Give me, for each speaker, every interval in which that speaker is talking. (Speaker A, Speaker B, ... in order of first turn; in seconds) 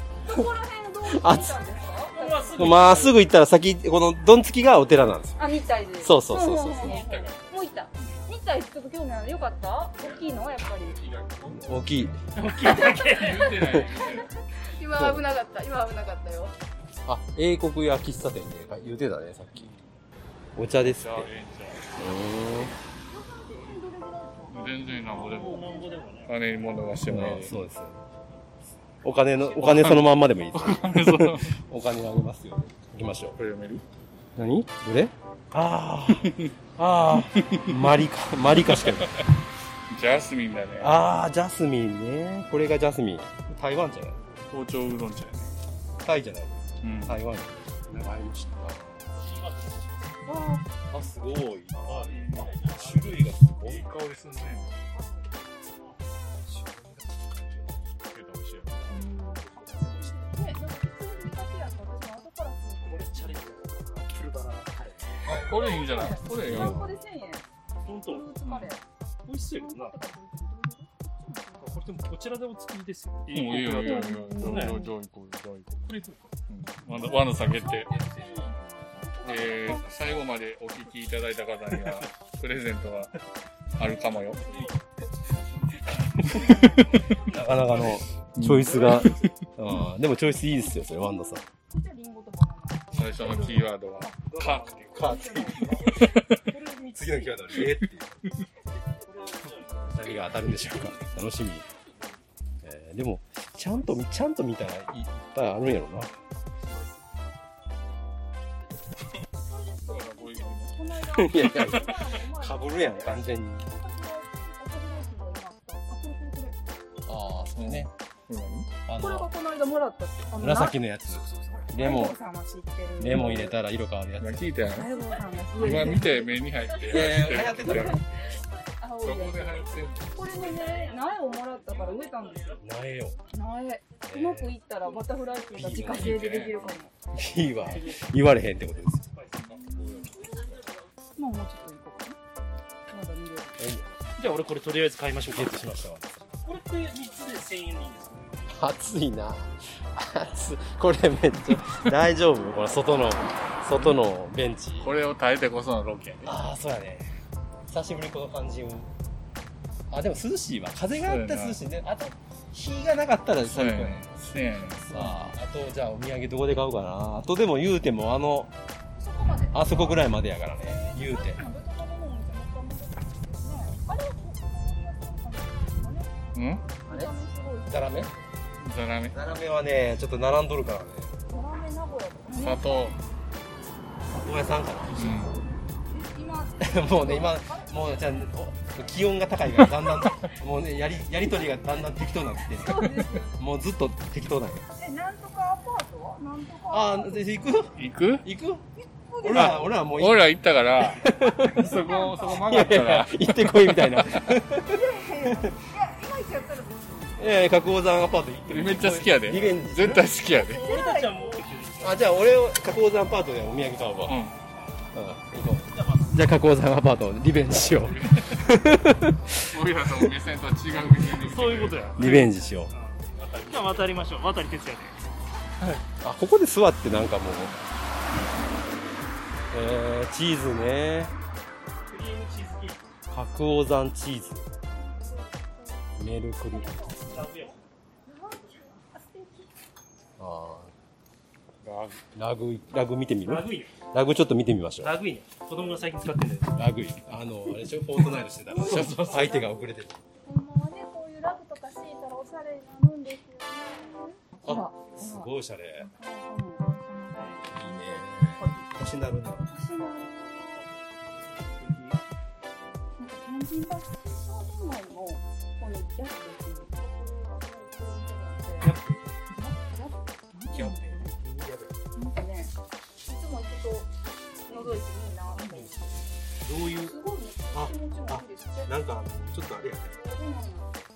Speaker A: 0.2-2.8, 5.4-11.0, 12.6-16.5, 23.1-26.1, 50.2-50.6, 54.9-55.2, 58.9-63.5, 65.3-67.4, 68.0-68.8, 69.5-71.8, 73.7-74.9, 76.9-80.2, 91.6-96.1, 109.4-116.5, 119.0-120.8, 121.4-123.5, 124.7-132.6, 133.3-136.9, 139.8-140.2, 141.2-142.2, 142.9-143.6, 169.0-169.7, 170.6-176.1, 176.8-178.2, 181.3-183.0, 185.9-188.0, 192.6-193.3, 194.8-197.2, 198.8-199.6, 201.4-202.5, 204.6-207.2, 210.3-211.4, 234.7-237.5, 238.1-239.5, 248.4-249.7, 250.2-258.7, 259.5-260.7, 263.0-271.1, 271.9-273.9, 274.5-275.9, 276.7-278.7, 279.9-280.8
Speaker B: 1.1-1.6, 2.6-5.4, 6.0-7.0, 11.5-12.2, 14.9-15.2, 17.1-19.7, 20.6-21.3, 21.9-22.7, 27.1-28.0, 29.0-33.4, 34.4-39.2, 40.8-44.2, 46.0-49.1, 50.9-53.9, 66.4-67.0, 86.2-91.4, 94.9-95.9, 96.9-98.2, 99.8-101.6, 102.6-106.1, 111.1-113.7, 117.1-117.9, 118.8-119.3, 120.4-122.2, 123.0-124.5, 126.8-128.0, 132.6-133.2, 134.0-134.5, 135.5-136.3, 137.1-139.1, 143.6-143.8, 145.3-146.2, 148.5-154.9, 156.2-157.1, 157.7-158.9, 159.9-164.1, 164.8-168.5, 169.5-171.4, 177.7-178.1, 179.1-181.2, 184.1-185.2, 186.6-194.7, 196.7-198.6, 199.2-201.8, 202.3-205.5, 207.2-210.1, 211.8-214.2, 214.9-219.5, 222.0-222.7, 226.0-227.6, 229.5-231.1, 233.1-234.5, 236.0-236.8, 240.2-240.7, 242.1-244.9, 246.6-250.0, 254.4-255.9, 257.5-259.5, 271.2-271.7, 276.4-276.9, 277.5-280.0
Speaker C: 2.1-3.2, 12.3-13.6, 25.1-26.3, 49.1-50.0, 51.9-53.0, 62.8-65.0, 67.8-68.3, 69.2-70.0, 71.6-74.8, 75.8-76.2, 88.2-89.2, 94.3-94.7, 96.0-97.5, 99.0-101.1, 137.7-138.1, 139.1-139.5, 144.2-145.8, 146.4-148.5, 210.6-212.1, 215.7-216.1, 221.2-224.9, 231.9-232.8, 237.1-237.6, 243.2-243.7, 244.8-246.6, 261.4-262.0
Speaker D: 6.7-7.5, 10.0-12.1, 12.7-14.3, 19.5-19.9, 20.8-22.2, 24.5-25.7, 26.3-27.6, 29.5-31.6, 33.4-33.8, 37.3-37.8, 38.7-39.2, 39.9-41.0, 44.5-45.5, 46.8-47.2, 52.0-52.5, 53.6-54.7, 57.5-59.1, 65.2-66.9, 68.4-68.7, 73.3-75.9, 76.5-77.9, 79.2-83.1, 83.8-84.5, 86.3-86.6, 88.3-89.3, 92.9-96.4, 109.9-110.8, 117.5-118.7, 124.2-124.9, 125.5-128.0, 129.0-130.3, 135.7-136.7, 139.4-140.6, 154.8-156.3, 161.1-161.6, 163.4-165.2, 176.3-176.7, 178.6-179.2, 182.4-183.0, 184.9-185.4, 197.8-198.2, 199.3-204.4, 208.5-210.7, 214.1-214.3, 217.8-218.7, 219.4-222.0, 223.1-224.0, 241.6-242.0, 270.5-271.1